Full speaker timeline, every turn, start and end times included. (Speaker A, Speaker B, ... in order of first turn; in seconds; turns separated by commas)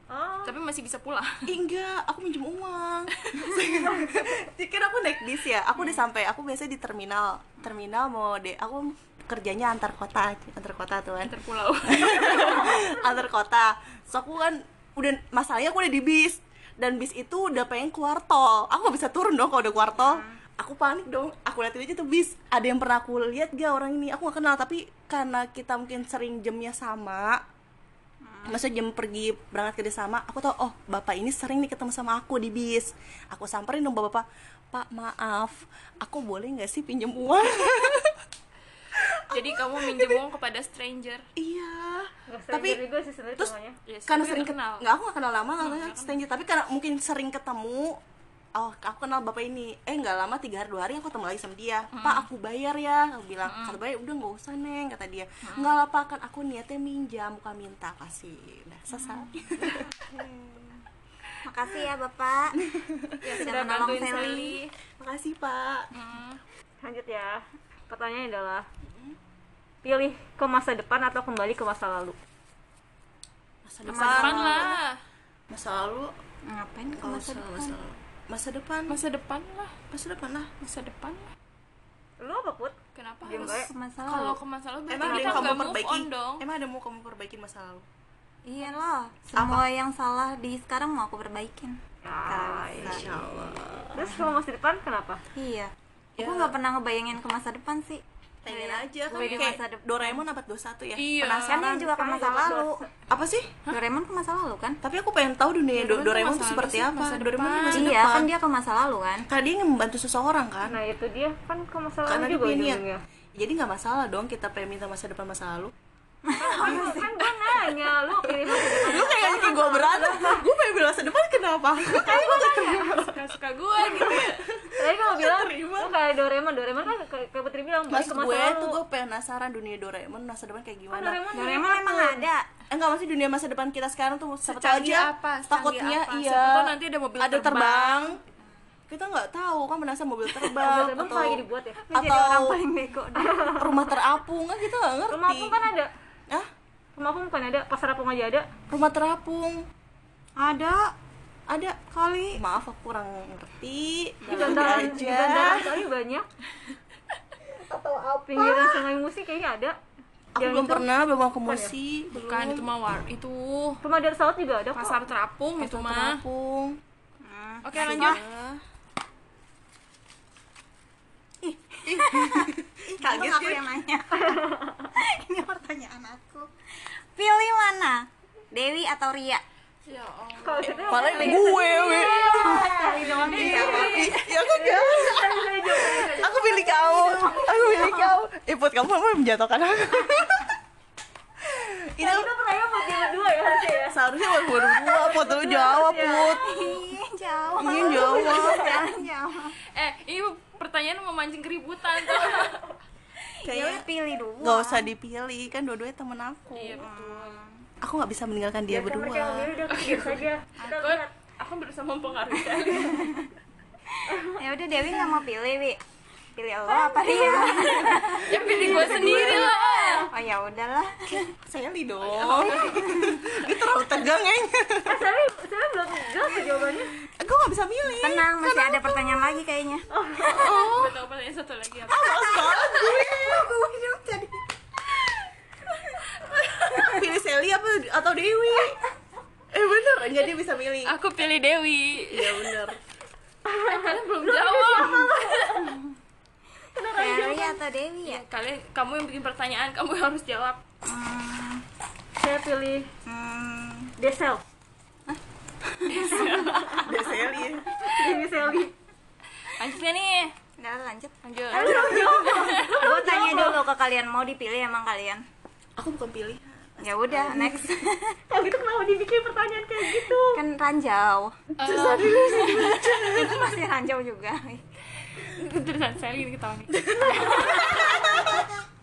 Speaker A: 0.1-0.6, Speaker B: 0.4-1.5, Speaker C: 1.4-11.3, Speaker B: 11.2-12.8, Speaker C: 11.8-27.4, Speaker D: 19.9-20.4, Speaker D: 28.2-28.6, Speaker C: 28.5-38.1, Speaker C: 39.0-40.2, Speaker B: 39.3-41.2, Speaker C: 41.4-42.8, Speaker A: 42.3-43.8, Speaker B: 43.9-44.9, Speaker C: 44.1-48.0, Speaker B: 45.6-46.2, Speaker C: 48.5-60.7, Speaker B: 51.9-52.3, Speaker B: 53.4-53.8, Speaker B: 55.4-55.8, Speaker D: 59.0-59.3, Speaker D: 61.4-62.6, Speaker C: 62.6-63.3, Speaker D: 63.2-64.6, Speaker B: 63.3-64.7, Speaker A: 63.4-64.5, Speaker C: 65.0-65.9, Speaker B: 65.9-66.4, Speaker A: 66.8-68.7, Speaker A: 69.8-72.2, Speaker C: 73.6-74.8, Speaker D: 73.8-74.7, Speaker B: 73.9-75.0, Speaker C: 75.5-76.1, Speaker D: 76.4-77.8, Speaker C: 77.0-79.0, Speaker B: 78.9-79.8, Speaker C: 79.9-80.5, Speaker B: 80.6-81.3, Speaker A: 82.2-83.7, Speaker B: 82.9-86.5, Speaker D: 83.3-84.4, Speaker C: 84.9-87.8, Speaker D: 85.0-85.5, Speaker D: 88.5-93.1, Speaker C: 89.3-89.6, Speaker A: 92.0-93.1, Speaker C: 92.8-94.0, Speaker A: 93.9-95.2, Speaker D: 95.3-100.2, Speaker C: 96.2-96.5, Speaker C: 98.4-102.5, Speaker B: 99.1-99.6, Speaker B: 101.0-101.8, Speaker D: 101.4-102.8, Speaker A: 101.7-102.9, Speaker C: 103.1-103.5, Speaker D: 103.7-104.8, Speaker C: 104.8-108.3, Speaker B: 105.7-108.0, Speaker D: 107.7-109.3, Speaker C: 109.3-110.8, Speaker A: 110.7-113.0, Speaker C: 112.0-112.8, Speaker C: 113.3-115.7, Speaker D: 116.2-117.3, Speaker A: 116.3-120.4, Speaker C: 118.5-123.2, Speaker A: 121.9-123.1, Speaker B: 123.0-124.5, Speaker C: 123.8-125.9, Speaker A: 124.8-128.8, Speaker C: 127.9-138.2, Speaker D: 131.3-132.5, Speaker B: 134.4-138.1, Speaker C: 138.9-142.6, Speaker A: 140.6-141.8, Speaker D: 141.8-143.9, Speaker A: 143.3-143.5, Speaker C: 143.5-145.6, Speaker A: 145.1-145.9, Speaker A: 147.0-148.5, Speaker C: 148.7-149.7, Speaker D: 150.4-150.9, Speaker C: 151.5-155.8, Speaker D: 151.9-152.4, Speaker D: 154.2-155.1, Speaker A: 154.3-156.2, Speaker C: 157.7-158.7, Speaker A: 158.3-159.8, Speaker C: 160.3-162.6, Speaker A: 160.4-160.9, Speaker A: 161.4-161.7, Speaker B: 162.1-163.8, Speaker A: 163.8-165.0, Speaker B: 164.7-166.2, Speaker C: 165.6-166.8, Speaker D: 167.2-168.2, Speaker B: 167.6-168.2, Speaker C: 167.7-168.6, Speaker D: 171.4-179.4, Speaker C: 171.8-173.7, Speaker A: 174.3-174.8, Speaker B: 179.8-184.3, Speaker A: 180.4-186.4, Speaker C: 180.6-190.5, Speaker D: 182.2-184.4, Speaker B: 185.8-187.3, Speaker D: 186.4-188.2, Speaker C: 191.4-192.3, Speaker A: 192.0-194.0, Speaker C: 193.8-196.8, Speaker A: 194.5-196.4, Speaker D: 196.1-199.6, Speaker C: 197.6-198.8, Speaker A: 197.9-198.8, Speaker B: 199.7-202.7, Speaker D: 203.4-204.9, Speaker C: 203.4-203.8, Speaker C: 204.4-206.9, Speaker B: 206.5-207.4, Speaker D: 206.7-207.6, Speaker C: 207.8-209.6, Speaker A: 208.7-211.1, Speaker B: 209.7-213.3, Speaker D: 212.9-213.2, Speaker A: 214.1-214.4, Speaker D: 214.1-215.8, Speaker D: 216.3-219.5, Speaker A: 216.7-220.1, Speaker B: 217.9-220.1, Speaker C: 218.3-219.5, Speaker D: 220.1-221.3, Speaker C: 221.4-225.0, Speaker B: 222.2-222.7, Speaker D: 222.5-223.2, Speaker A: 224.8-227.0, Speaker C: 227.0-229.3, Speaker D: 227.8-229.9, Speaker A: 229.9-230.6, Speaker B: 230.3-232.2, Speaker C: 230.3-230.9, Speaker C: 231.9-233.5, Speaker D: 231.9-234.4, Speaker B: 236.2-236.9, Speaker C: 236.8-238.8, Speaker C: 239.5-240.9, Speaker B: 240.8-242.6, Speaker C: 242.1-242.8, Speaker A: 243.5-245.4, Speaker B: 243.6-245.7, Speaker A: 246.7-247.6, Speaker D: 246.9-248.2, Speaker B: 248.0-250.6, Speaker D: 250.8-251.6, Speaker A: 252.2-252.9, Speaker D: 253.1-253.9, Speaker A: 254.0-254.4, Speaker D: 255.8-256.6, Speaker B: 255.8-256.9, Speaker C: 256.8-257.7, Speaker A: 257.8-258.7, Speaker B: 259.5-260.3, Speaker D: 260.6-265.2, Speaker B: 261.2-263.1, Speaker A: 261.5-263.6, Speaker C: 261.6-262.4, Speaker C: 265.8-267.7, Speaker D: 266.8-268.2, Speaker A: 268.3-270.4, Speaker D: 270.3-271.4, Speaker B: 271.6-272.8, Speaker C: 271.6-273.5, Speaker D: 272.2-274.6, Speaker B: 275.2-277.7, Speaker C: 276.7-278.5, Speaker D: 277.2-278.6